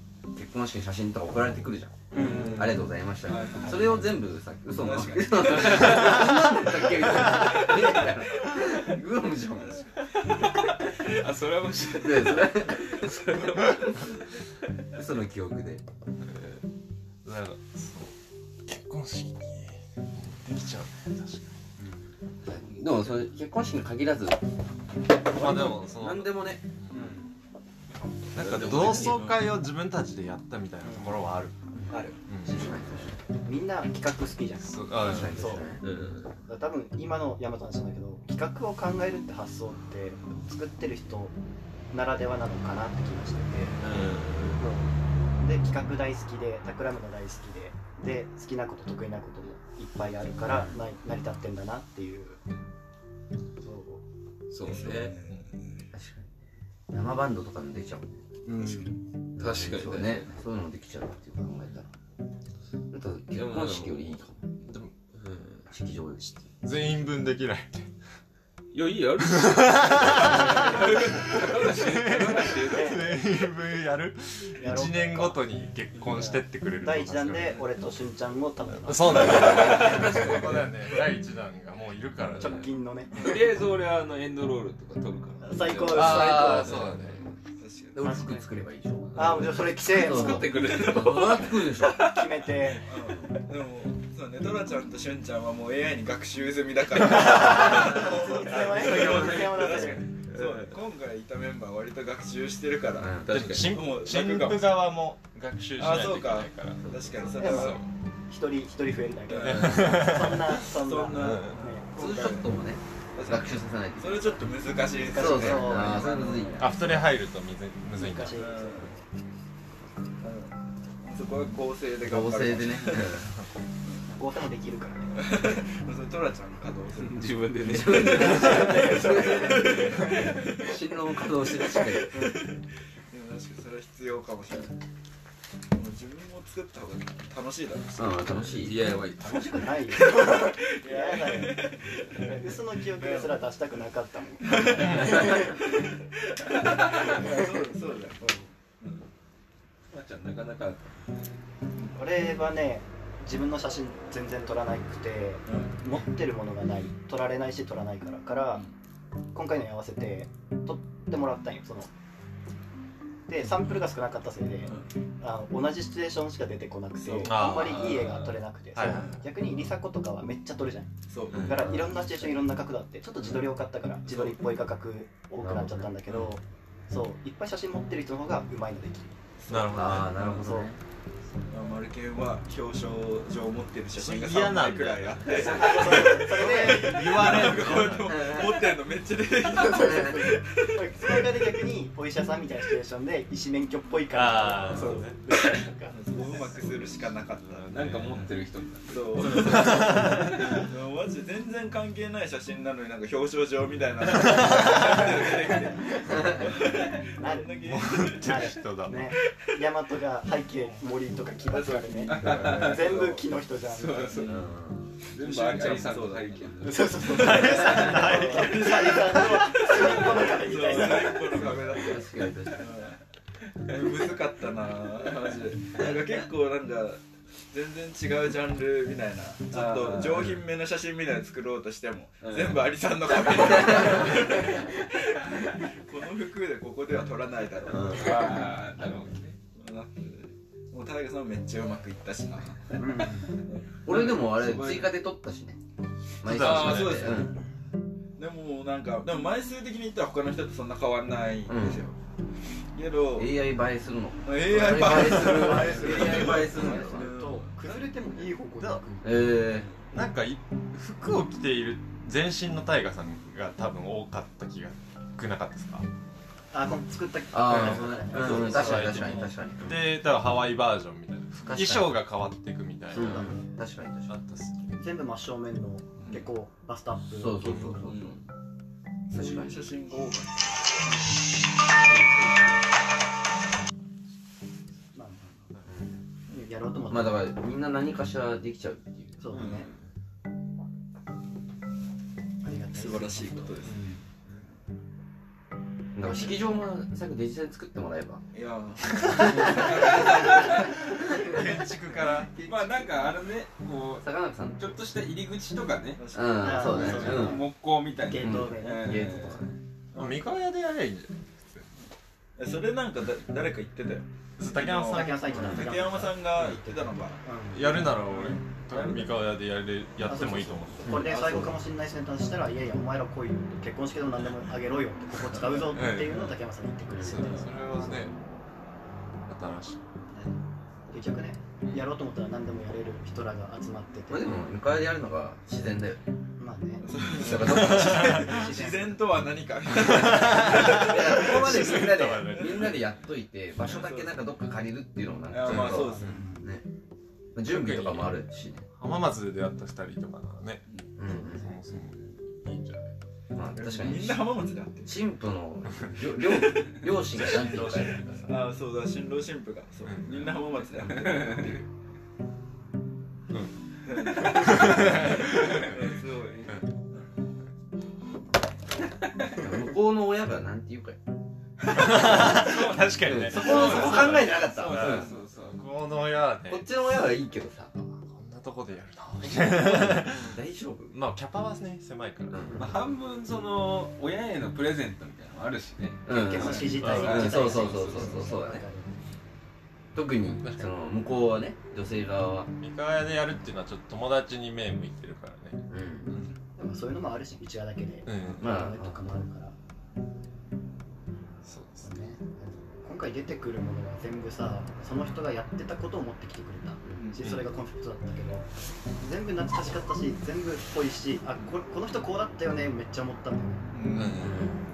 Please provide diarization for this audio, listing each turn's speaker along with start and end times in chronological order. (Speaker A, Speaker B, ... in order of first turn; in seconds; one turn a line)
Speaker A: 0.3-9.9
Speaker B: 2.1-3.9
Speaker C: 2.1-4.1
Speaker D: 2.1-2.5
Speaker C: 4.7-6.0
Speaker B: 5.3-6.2
Speaker E: 5.9-6.2
Speaker B: 7.4-7.8
Speaker C: 7.4-8.1
Speaker C: 9.6-10.1
Speaker B: 10.1-14.2
Speaker A: 11.9-13.2
Speaker A: 14.9-15.8
Speaker B: 16.3-16.6
Speaker E: 17.2-18.1
Speaker E: 18.7-21.5
Speaker A: 22.4-24.4
Speaker A: 25.3-26.6
Speaker E: 25.3-26.9
Speaker B: 26.9-27.2
Speaker A: 28.4-29.3
Speaker E: 28.4-31.6
Speaker B: 28.5-29.2
Speaker C: 29.0-29.4
Speaker D: 30.8-31.1
Speaker D: 31.9-32.1
Speaker E: 32.3-32.6
Speaker A: 32.4-33.2
Speaker D: 33.5-35.8
Speaker E: 34.6-35.6
Speaker A: 35.0-35.9
Speaker B: 35.8-36.3
Speaker D: 36.5-41.4
Speaker D: 41.9-43.8
Speaker B: 43.8-44.6
Speaker D: 44.5-52.4
Speaker D: 53.6-54.0
Speaker B: 54.5-55.2
Speaker C: 54.6-55.9
Speaker A: 55.9-56.3
Speaker A: 56.9-58.1
Speaker D: 58.5-59.0
Speaker A: 59.4-61.9
Speaker B: 59.4-60.3
Speaker A: 62.9-64.4
Speaker B: 63.3-64.2
Speaker E: 64.6-64.9
Speaker B: 65.2-65.7
Speaker A: 65.7-66.5
Speaker E: 66.5-67.9
Speaker B: 68.7-73.2
Speaker E: 69.2-77.6
Speaker D: 72.6-73.1
Speaker D: 74.6-75.4
Speaker D: 76.0-80.4
Speaker E: 78.8-82.7
Speaker B: 79.2-80.5
Speaker D: 82.4-83.4
Speaker B: 83.2-86.6
Speaker D: 85.4-86.9
Speaker A: 85.9-87.0
Speaker E: 85.9-87.2
Speaker C: 87.6-88.1
Speaker A: 87.9-92.0
Speaker D: 88.0-88.5
Speaker D: 89.2-90.6
Speaker B: 89.9-92.8
Speaker D: 91.9-92.9
Speaker C: 92.8-105.0
Speaker D: 97.2-100.1
Speaker E: 98.6-99.4
Speaker B: 98.8-100.8
Speaker A: 98.9-99.4
Speaker A: 103.0-103.3
Speaker B: 103.3-103.8
Speaker E: 103.3-107.8
Speaker C: 105.8-107.8
Speaker D: 107.3-112.4
Speaker C: 109.3-110.1
Speaker E: 109.5-110.6
Speaker C: 110.7-112.5
Speaker E: 111.2-111.6
Speaker A: 112.0-114.5
Speaker C: 113.2-116.9
Speaker D: 114.9-116.2
Speaker A: 115.1-117.0
Speaker E: 116.6-118.4
Speaker D: 118.0-119.0
Speaker C: 118.4-118.9
Speaker C: 120.2-123.2
Speaker A: 122.0-123.3
Speaker C: 123.8-124.1
Speaker D: 124.1-125.3
Speaker C: 125.2-127.3
Speaker B: 127.0-129.2
Speaker A: 127.7-132.3
Speaker D: 127.9-130.4
Speaker C: 128.0-132.6
Speaker D: 132.1-132.4
Speaker C: 133.1-134.7
Speaker C: 135.7-138.7
Speaker A: 138.0-138.9
Speaker B: 138.5-139.6
Speaker D: 139.2-141.7
Speaker C: 139.9-143.4
Speaker D: 142.3-145.6
Speaker C: 144.4-148.2
Speaker E: 144.8-145.2
Speaker D: 147.0-148.5
Speaker C: 148.8-149.1
Speaker B: 149.9-151.0
Speaker D: 152.0-158.7
Speaker C: 155.5-155.8
Speaker D: 159.3-161.9
Speaker D: 163.3-179.2
Speaker C: 164.7-164.9
Speaker C: 167.0-168.0
Speaker E: 167.3-168.2
Speaker B: 167.9-168.3
Speaker E: 168.8-169.2
Speaker C: 168.8-169.2
Speaker C: 171.1-171.9
Speaker A: 171.3-172.0
Speaker C: 174.1-174.4
Speaker A: 175.4-176.3
Speaker C: 179.4-180.5
Speaker E: 179.5-180.1
Speaker A: 179.7-180.8
Speaker D: 180.3-180.7
Speaker C: 181.5-190.5
Speaker E: 183.9-188.3
Speaker D: 185.3-187.8
Speaker A: 188.1-188.7
Speaker D: 189.5-196.4
Speaker A: 189.8-190.2
Speaker E: 194.1-195.2
Speaker C: 194.7-198.3
Speaker B: 197.5-200.7
Speaker C: 198.9-208.5
Speaker E: 199.5-200.4
Speaker E: 204.2-204.9
Speaker D: 204.5-205.3
Speaker D: 206.0-206.5
Speaker A: 206.1-206.4
Speaker D: 207.2-214.2
Speaker E: 207.6-209.1
Speaker C: 211.5-213.3
Speaker B: 212.1-214.4
Speaker C: 214.1-214.5
Speaker A: 214.2-214.9
Speaker B: 215.1-217.6
Speaker C: 215.2-223.0
Speaker D: 216.6-221.6
Speaker E: 217.0-219.4
Speaker A: 221.4-222.7
Speaker C: 223.7-243.7
Speaker B: 229.5-230.4
Speaker B: 232.2-232.7
Speaker B: 233.3-234.5
Speaker A: 233.7-234.0
Speaker B: 237.7-239.4
Speaker A: 237.7-238.3
Speaker D: 242.8-243.4
Speaker A: 243.9-245.6
Speaker B: 243.9-244.9
Speaker A: 246.2-247.4
Speaker E: 246.2-247.3
Speaker C: 246.3-247.3
Speaker C: 248.2-252.0
Speaker A: 251.5-251.8
Speaker C: 252.7-253.3
Speaker A: 253.2-257.1
Speaker C: 254.2-257.7
Speaker D: 254.8-259.4
Speaker E: 254.9-255.6
Speaker A: 259.0-259.7
Speaker E: 259.9-265.9
Speaker D: 266.5-269.1
Speaker A: 267.3-269.9
Speaker E: 267.5-273.4
Speaker C: 268.2-269.3
Speaker A: 271.5-272.0
Speaker A: 272.9-274.1
Speaker D: 272.9-273.3
Speaker E: 274.1-274.9
Speaker D: 274.8-277.9
Speaker A: 277.1-278.2
Speaker C: 277.9-278.2
Speaker C: 279.1-280.6
Speaker A: 279.1-279.7
Speaker D: 284.9-285.5
Speaker A: 285.7-286.0
Speaker D: 286.3-287.3
Speaker A: 286.9-289.5
Speaker D: 289.2-289.7
Speaker C: 289.3-289.7
Speaker D: 292.4-294.0
Speaker C: 292.8-293.8
Speaker A: 295.9-298.2
Speaker D: 296.0-296.4
Speaker C: 298.3-300.7
Speaker A: 299.1-299.9
Speaker B: 299.1-300.7
Speaker D: 299.8-301.5
Speaker E: 300.5-302.4
Speaker C: 301.9-303.1
Speaker B: 302.4-308.5
Speaker A: 304.0-304.7
Speaker C: 306.0-307.4
Speaker A: 306.1-307.5
Speaker D: 306.4-309.1
Speaker A: 308.1-309.6
Speaker C: 308.6-309.4
Speaker C: 309.9-310.3
Speaker E: 309.9-311.7
Speaker C: 312.4-317.2
Speaker E: 314.4-315.9
Speaker D: 314.8-317.9
Speaker E: 317.5-321.1
Speaker C: 318.1-319.1
Speaker D: 320.1-328.1
Speaker A: 320.8-321.5
Speaker C: 321.0-321.5
Speaker E: 325.7-326.3
Speaker A: 326.9-327.2
Speaker E: 327.1-328.1
Speaker E: 329.3-329.8
Speaker D: 330.1-330.4
Speaker D: 330.9-334.2
Speaker A: 334.1-336.0
Speaker D: 336.4-336.9
Speaker C: 336.8-341.7
Speaker A: 337.1-338.3
Speaker E: 337.4-338.3
Speaker D: 338.0-339.0
Speaker E: 339.8-342.9
Speaker A: 340.6-346.6
Speaker C: 343.7-344.2
Speaker C: 345.3-346.3
Speaker E: 345.5-345.8
Speaker D: 345.7-346.5
Speaker A: 347.4-348.7
Speaker E: 347.4-348.1
Speaker E: 348.7-350.6
Speaker A: 351.0-351.5
Speaker E: 351.2-352.9
Speaker A: 353.3-354.3
Speaker C: 353.5-355.0
Speaker A: 354.9-358.3
Speaker E: 357.1-358.2
Speaker C: 357.3-361.7
Speaker E: 359.9-360.3
Speaker B: 360.9-361.5
Speaker C: 363.9-367.1
Speaker E: 364.0-365.8
Speaker A: 369.4-371.0
Speaker E: 371.7-376.7
Speaker A: 371.9-372.4
Speaker B: 372.1-375.6
Speaker A: 373.0-375.1
Speaker A: 376.5-378.0
Speaker E: 378.0-380.4
Speaker A: 379.2-381.0
Speaker E: 380.9-382.7
Speaker A: 382.3-382.7
Speaker B: 382.6-388.3
Speaker A: 386.1-388.6
Speaker D: 386.1-389.0
Speaker E: 386.8-387.4
Speaker A: 389.9-392.5
Speaker E: 392.6-396.4
Speaker A: 395.7-396.1
Speaker D: 396.6-399.6
Speaker E: 398.1-398.5
Speaker A: 398.4-399.1
Speaker E: 401.4-401.9
Speaker D: 401.8-408.5
Speaker A: 406.9-407.1
Speaker C: 407.0-407.4
Speaker E: 407.2-407.5
Speaker D: 409.0-414.1
Speaker C: 413.7-414.4
Speaker E: 413.9-414.5
Speaker A: 414.2-414.6